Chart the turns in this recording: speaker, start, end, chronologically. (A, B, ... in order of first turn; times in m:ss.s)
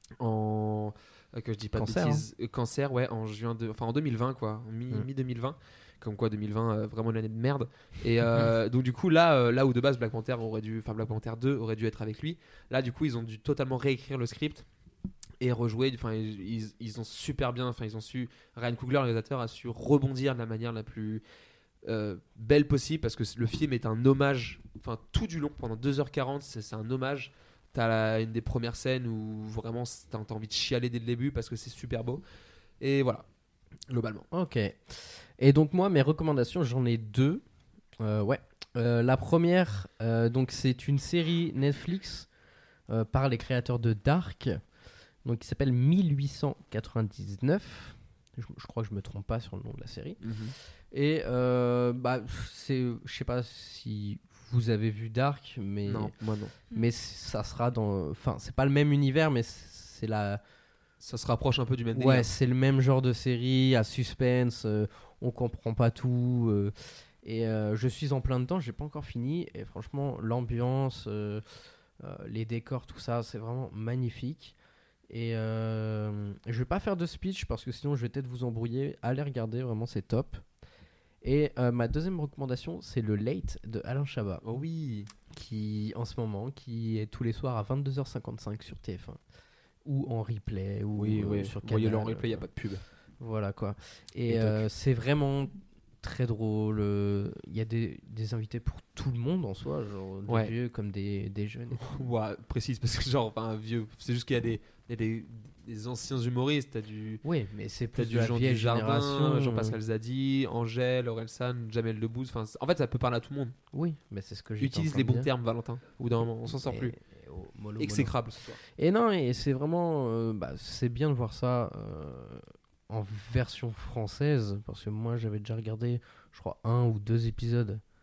0:00.2-0:14.6 A
0:01.8-0:02.2 B
0:15.4-0:21.2 A
0:21.8-0:32.2 A
0:32.8-0:33.2 A
0:33.9-0:34.3 A
0:34.3-0:37.4 B
0:38.0-0:42.3 B
0:42.9-0:44.6 B
0:45.2-0:50.2 B
0:50.2-0:50.5 A
0:50.9-0:56.1 B
0:55.8-0:56.5 A
0:56.7-1:00.4 B
1:01.0-1:02.3 A
1:01.9-1:11.4 B
1:12.0-1:14.6 B
1:15.1-1:20.4 B
1:21.2-1:24.4 B
1:24.4-1:25.1 A
1:25.3-1:29.2 B
1:29.8-1:32.4 B
1:31.0-1:32.8 A
1:33.2-1:41.9 B
1:34.3-1:34.6 A
1:41.8-1:47.2 A
1:47.2-1:49.8 B
1:47.9-1:53.5 A
1:53.7-1:55.3 B
1:54.6-1:56.9 A
1:56.6-2:07.8 B
1:57.8-1:58.6 A